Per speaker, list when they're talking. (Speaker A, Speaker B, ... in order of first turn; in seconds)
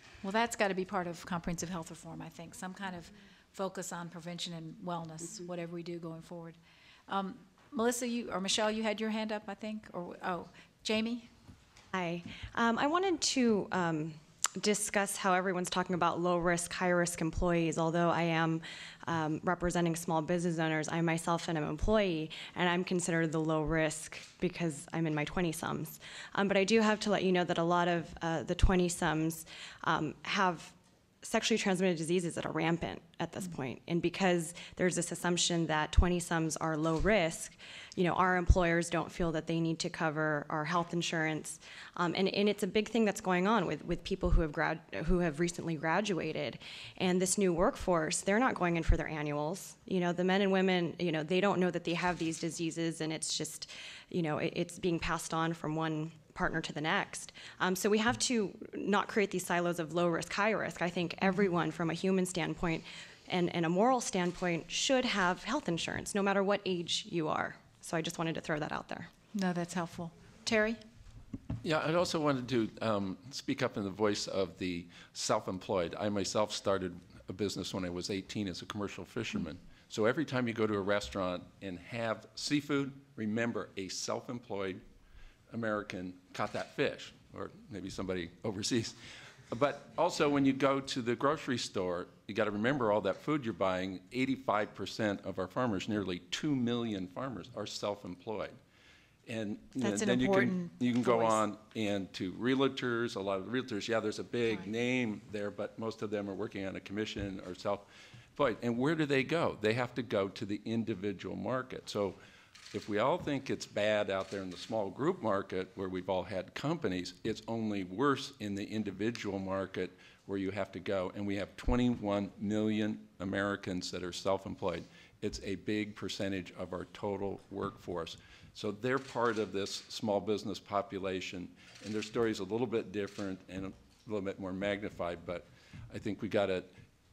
Speaker A: 0.2-11.3, 69.3-70.8, 99.8-101.4
Speaker B: 11.9-69.1
Speaker C: 71.6-84.8, 85.5-89.0, 89.5-98.6, 99.3-112.2, 112.7-136.7